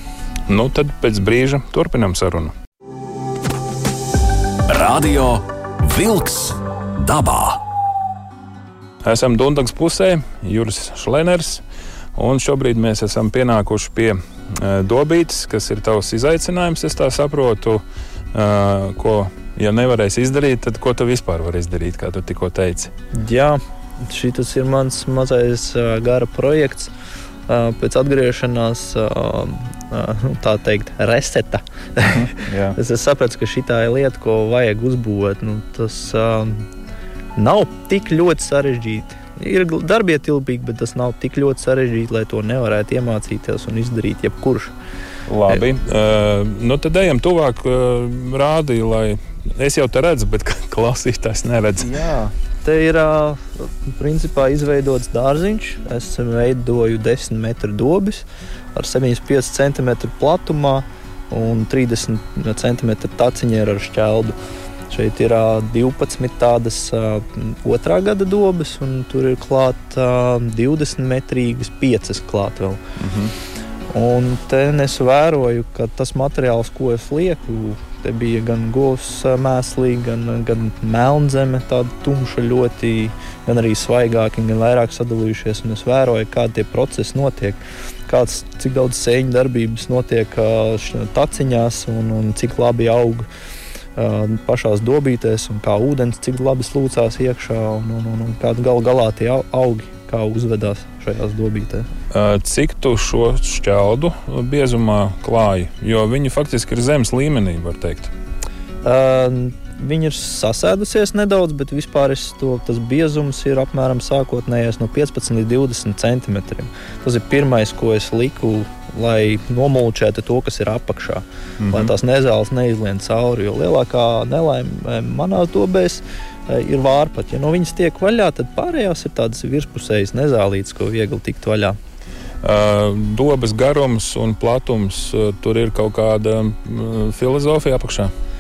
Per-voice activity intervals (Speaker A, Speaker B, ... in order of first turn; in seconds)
Speaker A: 0.5-2.5, 9.0-11.6, 12.2-22.9, 32.1-32.8, 45.3-51.9, 73.0-73.3, 102.1-108.1, 121.6-121.9, 132.4-138.1
Speaker B: 4.7-7.6
Speaker C: 23.1-26.9, 27.5-36.6, 37.4-44.7, 51.8-64.3, 64.9-72.8, 73.9-93.3, 94.0-101.9, 108.8-131.8